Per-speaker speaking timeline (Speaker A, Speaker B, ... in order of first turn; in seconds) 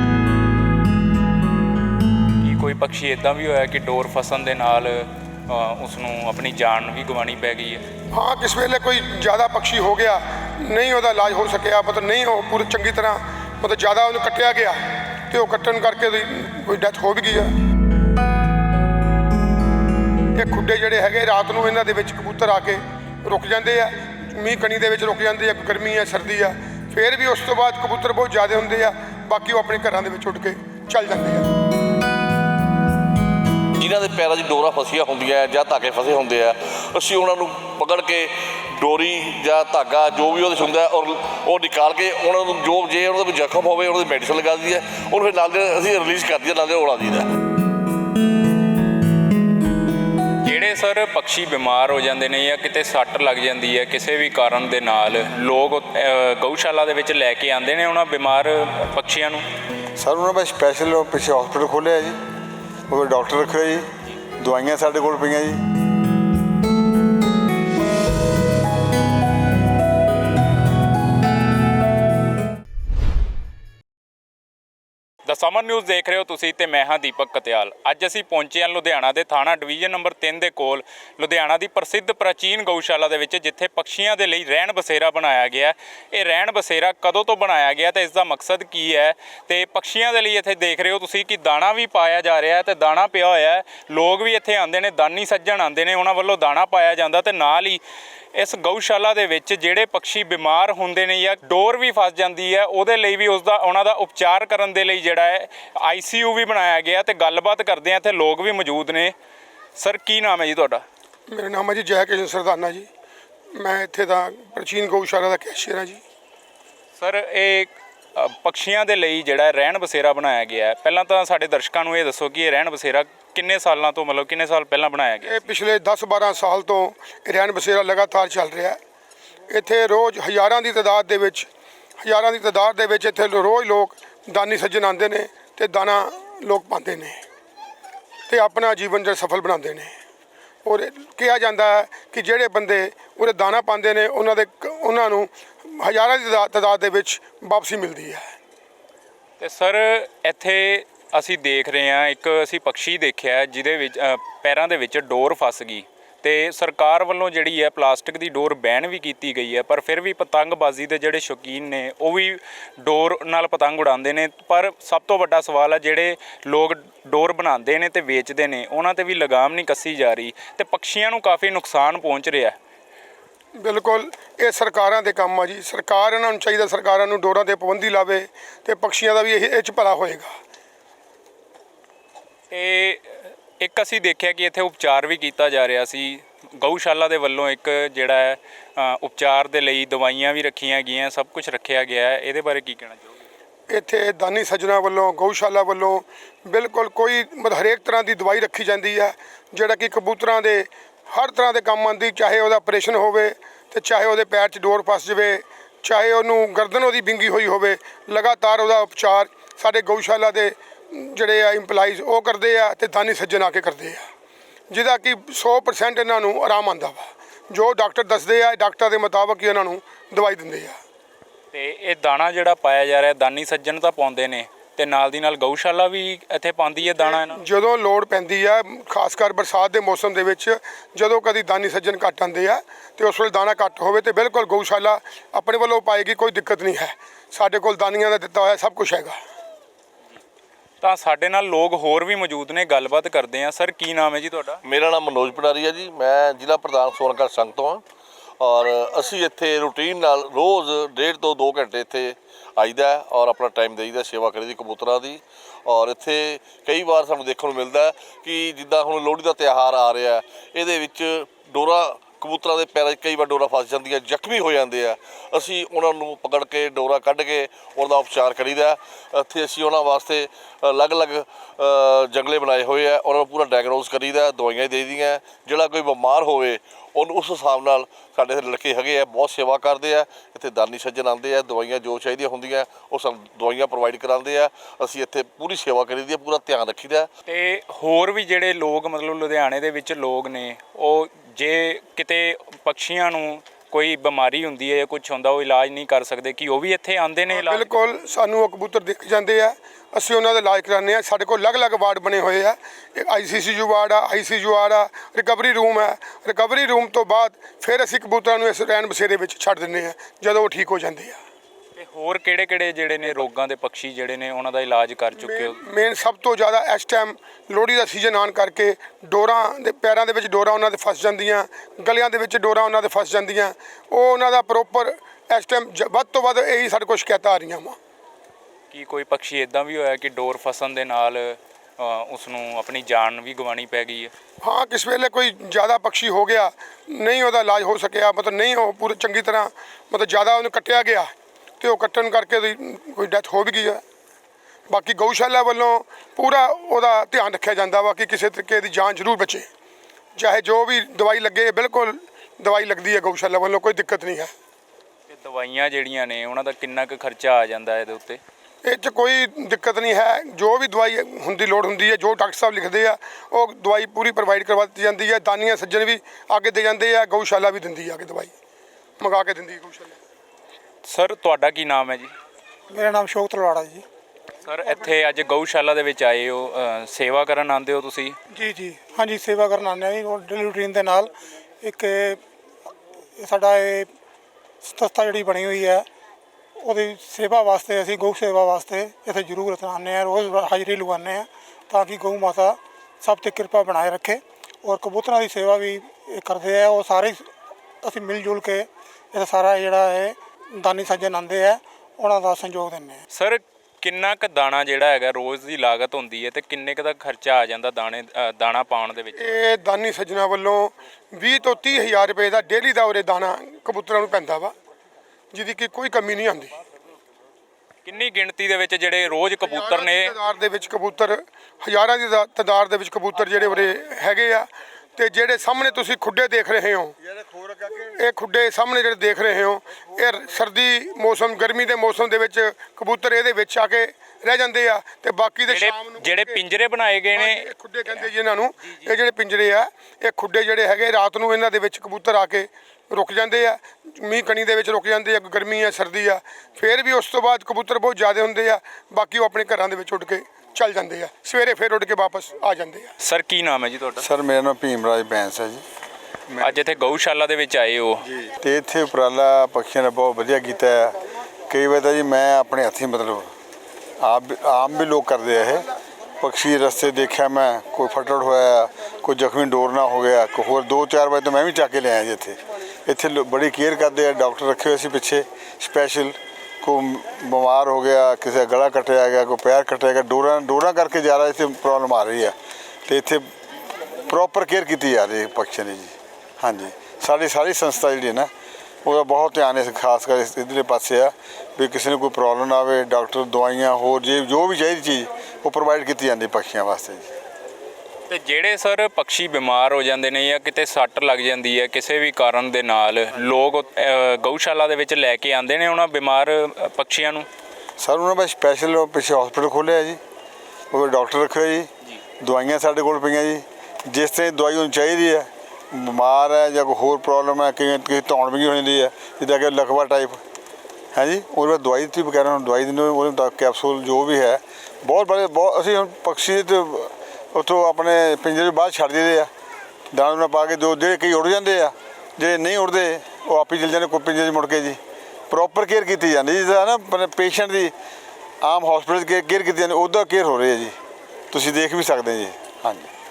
Speaker A: 2.4-7.8, 50.4-59.4, 75.2-97.8, 98.3-109.1, 109.8-110.8, 117.0-125.5, 149.4-172.6, 182.5-193.1, 221.5-227.4, 240.8-244.6, 287.2-297.7, 311.8-315.6, 328.7-334.1, 355.1-358.2, 370.9-372.1, 374.4-378.1, 403.1-409.3, 417.8-420.1, 435.5-438.1, 453.0-454.0, 456.4-458.0, 498.1-507.3
Speaker B: 8.1-17.5, 20.3-31.5, 111.3-112.9, 113.5-116.0, 125.2-128.8, 129.5-131.5, 132.0-137.2, 138.3-139.9, 140.6-148.3, 173.6-180.3, 193.7-214.0, 214.7-220.8, 227.0-239.2, 297.3-311.2, 315.1-327.8, 334.4-343.8, 344.7-349.5, 350.1-354.3, 358.6-368.3, 369.0-370.0, 409.2-414.5, 415.3-416.6, 419.4-426.9, 427.9-436.4, 437.1-452.9
Speaker C: 33.8-47.3, 244.6-247.8, 248.4-287.1
Speaker D: 60.0-62.2, 62.9-63.9, 64.4-65.6, 427.2-427.7, 454.0-455.6, 456.3-456.6, 458.0-461.0, 461.5-463.3, 464.0-465.7, 466.2-482.3, 482.9-483.3, 484.1-488.3, 488.8-497.1, 507.8-510.0, 510.7-511.7, 512.2-520.2, 520.9-529.3, 529.9-534.8, 535.3-537.7, 538.4-540.7, 541.3-542.9
Speaker E: 372.7-373.8, 378.3-381.1, 381.6-382.2, 383.2-383.9, 384.6-385.9, 386.6-397.2, 397.8-403.0